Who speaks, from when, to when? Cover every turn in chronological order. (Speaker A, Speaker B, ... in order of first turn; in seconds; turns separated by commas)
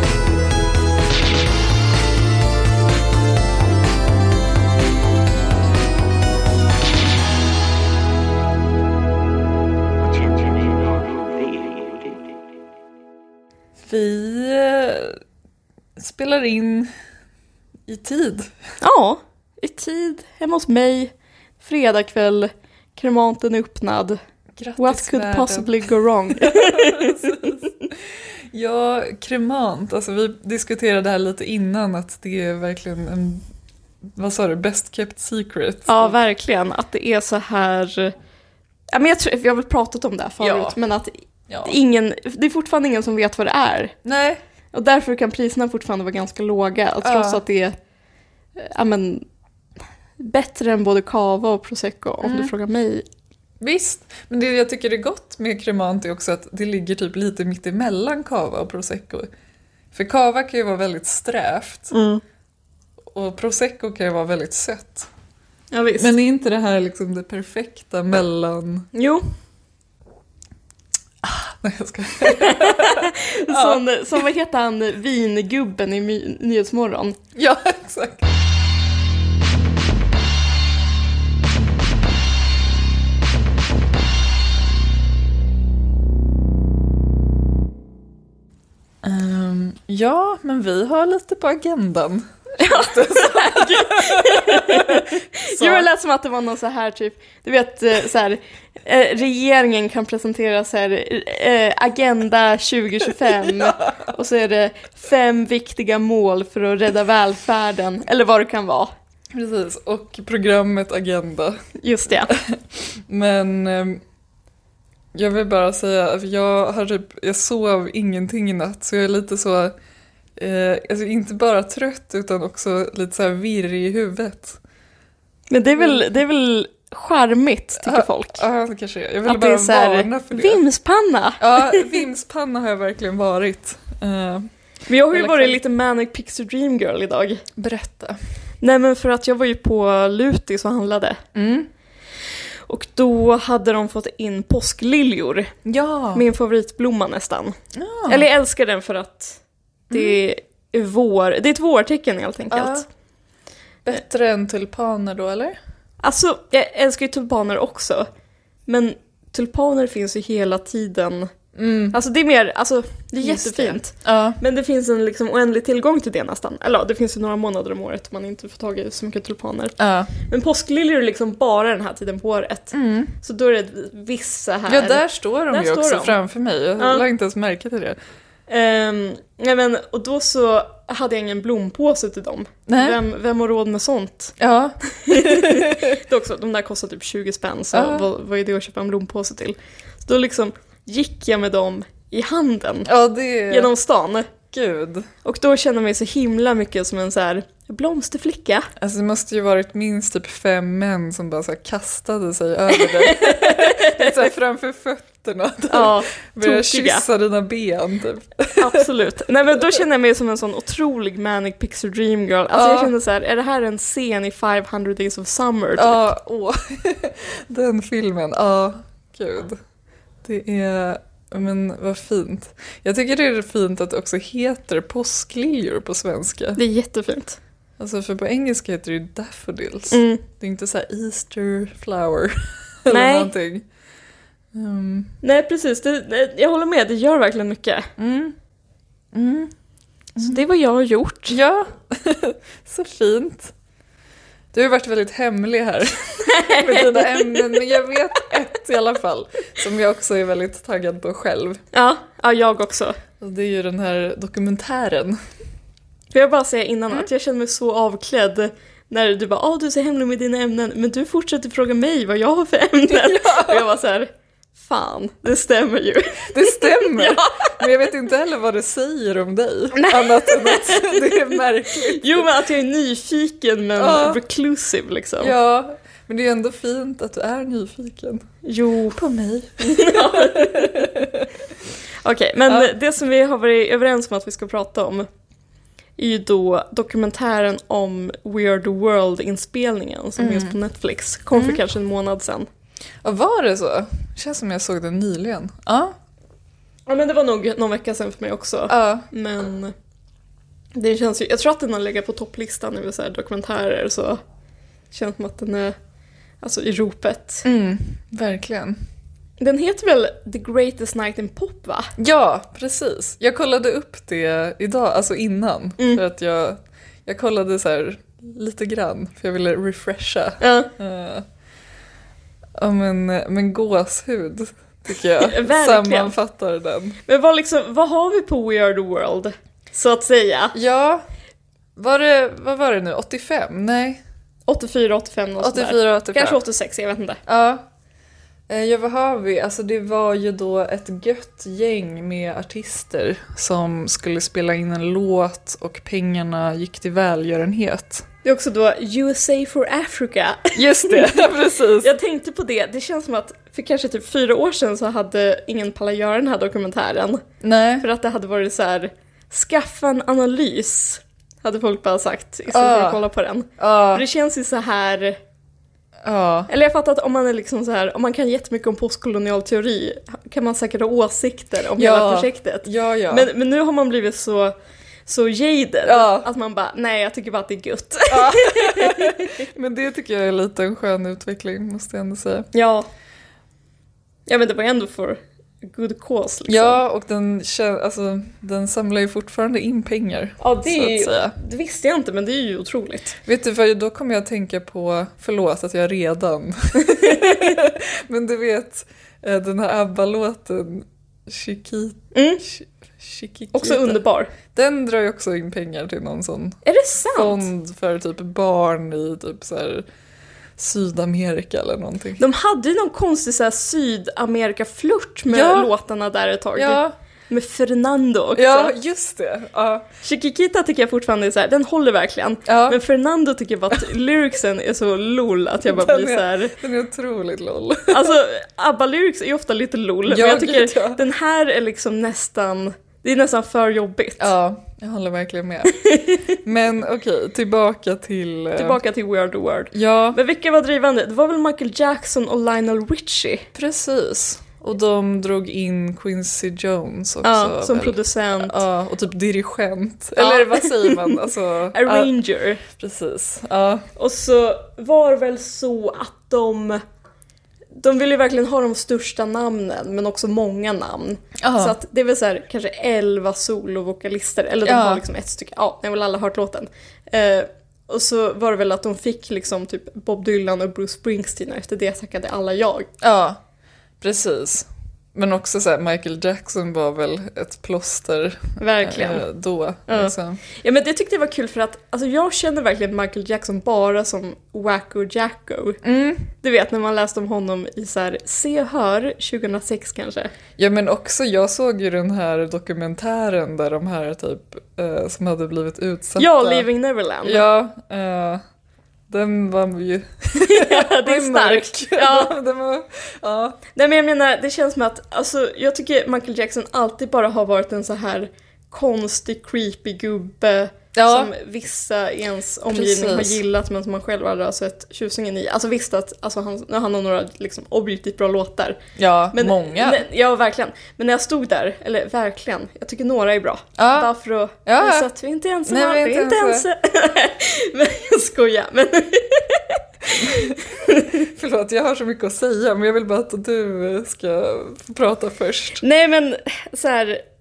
Speaker A: 10.0-12.3, Speaker B: 13.8-15.2, Speaker B: 16.0-16.9, Speaker B: 17.9-18.5, Speaker C: 18.8-24.2, Speaker B: 24.6-25.7, Speaker C: 24.8-27.9, Speaker B: 26.3-33.4, Speaker B: 34.1-36.1, Speaker C: 35.9-38.1, Speaker C: 38.9-43.9, Speaker B: 40.4-40.8, Speaker B: 41.5-41.7, Speaker B: 44.0-44.4, Speaker C: 44.7-47.8, Speaker B: 47.0-47.4, Speaker C: 48.6-49.2, Speaker C: 50.2-53.0, Speaker B: 52.2-52.5, Speaker B: 53.6-59.3, Speaker B: 59.9-61.9, Speaker C: 61.9-62.2, Speaker B: 63.1-65.1, Speaker C: 65.7-66.1, Speaker B: 66.0-68.9, Speaker C: 68.9-69.2, Speaker B: 71.2-73.8, Speaker C: 72.2-77.2, Speaker B: 77.3-78.3, Speaker B: 89.0-95.9, Speaker C: 92.6-108.9, Speaker B: 103.2-104.2, Speaker B: 109.3-111.6, Speaker C: 111.8-112.3, Speaker B: 112.3-114.0, Speaker B: 115.1-119.7, Speaker B: 120.3-124.6, Speaker C: 125.5-128.4, Speaker B: 125.8-126.0, Speaker B: 127.8-130.6, Speaker C: 129.2-132.0, Speaker B: 131.4-134.5, Speaker C: 134.9-137.4, Speaker B: 135.1-135.6, Speaker B: 137.6-138.2, Speaker C: 138.6-141.2, Speaker B: 141.3-141.7, Speaker C: 142.7-145.5, Speaker B: 145.6-146.2, Speaker C: 146.1-147.6, Speaker B: 147.7-148.3, Speaker C: 148.1-152.9, Speaker B: 149.9-150.2, Speaker B: 152.5-152.8, Speaker B: 153.8-155.6, Speaker C: 156.0-158.1, Speaker C: 158.7-161.3, Speaker B: 161.5-161.9, Speaker C: 161.9-176.2, Speaker B: 163.2-164.4, Speaker B: 169.8-170.1, Speaker B: 172.7-173.1, Speaker B: 174.7-178.0, Speaker C: 176.8-177.0, Speaker C: 178.5-184.4, Speaker B: 182.7-183.0, Speaker B: 184.4-186.0, Speaker C: 184.9-192.9, Speaker B: 187.7-188.1, Speaker B: 192.8-193.7, Speaker C: 193.5-194.3, Speaker B: 194.5-195.1, Speaker C: 195.2-198.7, Speaker B: 198.8-208.8, Speaker C: 202.7-204.2, Speaker C: 205.7-207.0, Speaker C: 208.6-216.1, Speaker B: 212.5-212.9, Speaker B: 215.8-219.6, Speaker B: 220.2-226.6, Speaker C: 226.6-227.4, Speaker B: 227.8-233.6, Speaker C: 229.9-230.2, Speaker C: 232.9-233.3, Speaker B: 234.5-235.1, Speaker C: 235.2-237.9, Speaker B: 238.0-238.3, Speaker B: 239.1-239.5, Speaker C: 240.2-241.4, Speaker B: 241.3-243.5, Speaker B: 244.5-251.6, Speaker C: 246.2-247.7, Speaker C: 251.7-253.0, Speaker B: 253.2-255.2, Speaker C: 256.1-267.6, Speaker B: 262.9-263.6, Speaker B: 266.3-272.3, Speaker C: 269.7-275.3, Speaker B: 273.8-274.2, Speaker B: 275.2-278.3, Speaker C: 278.4-279.0, Speaker B: 278.9-281.3, Speaker C: 279.6-281.0, Speaker C: 282.0-285.1, Speaker C: 286.0-292.5, Speaker B: 290.2-290.6, Speaker B: 291.3-291.6, Speaker B: 293.0-295.9, Speaker C: 296.9-299.7, Speaker B: 298.7-299.1, Speaker C: 300.7-304.2, Speaker C: 304.9-305.8, Speaker C: 306.4-307.4, Speaker B: 307.4-308.8, Speaker C: 309.4-311.9, Speaker B: 312.0-321.3, Speaker C: 320.4-320.7, Speaker B: 322.6-327.0, Speaker C: 325.2-326.1, Speaker C: 327.0-330.6, Speaker B: 330.5-331.0, Speaker B: 331.8-334.0, Speaker C: 334.5-337.2, Speaker B: 335.4-336.4, Speaker B: 337.3-337.7, Speaker B: 338.5-348.1, Speaker C: 348.2-351.2, Speaker B: 350.6-351.9, Speaker C: 351.8-357.2, Speaker B: 357.4-357.9, Speaker C: 357.8-365.2, Speaker B: 362.5-363.0, Speaker B: 363.6-364.0, Speaker B: 366.0-366.5, Speaker C: 366.5-374.5, Speaker B: 371.8-373.3, Speaker C: 375.1-379.4, Speaker B: 375.8-376.3, Speaker B: 378.1-382.5, Speaker C: 382.5-382.9, Speaker C: 384.3-386.8, Speaker B: 386.5-391.3, Speaker C: 390.4-393.2, Speaker B: 393.2-406.6, Speaker C: 396.8-397.6, Speaker C: 402.1-402.4, Speaker C: 403.5-404.3, Speaker C: 406.6-407.5, Speaker B: 407.1-409.8, Speaker B: 410.6-412.2, Speaker C: 412.2-418.7, Speaker B: 415.3-415.7, Speaker B: 416.5-416.9, Speaker B: 418.3-419.9, Speaker C: 420.0-426.6, Speaker B: 422.5-422.8, Speaker B: 425.6-428.2, Speaker C: 427.9-434.3, Speaker B: 430.1-431.0, Speaker B: 434.2-438.8, Speaker C: 435.7-436.4, Speaker C: 438.6-443.5, Speaker B: 439.7-440.2, Speaker B: 443.5-452.1, Speaker C: 447.2-448.6, Speaker C: 450.1-452.6, Speaker B: 452.6-453.9, Speaker C: 453.9-456.8, Speaker C: 457.7-472.9, Speaker B: 461.4-461.7, Speaker B: 464.6-465.0, Speaker B: 473.0-473.4, Speaker B: 474.0-480.4, Speaker C: 478.6-479.3, Speaker C: 479.9-485.8, Speaker B: 485.8-486.2, Speaker C: 486.3-490.3, Speaker B: 490.6-496.7, Speaker C: 496.2-497.4, Speaker B: 497.2-498.4, Speaker B: 499.1-503.6, Speaker C: 500.4-502.3, Speaker C: 503.7-518.8, Speaker B: 510.9-511.3, Speaker B: 512.7-513.4, Speaker B: 519.0-520.0, Speaker C: 519.3-531.3, Speaker B: 523.8-524.1, Speaker B: 524.6-525.1, Speaker B: 525.6-526.6, Speaker B: 530.2-530.6, Speaker B: 531.1-535.8, Speaker C: 535.8-537.2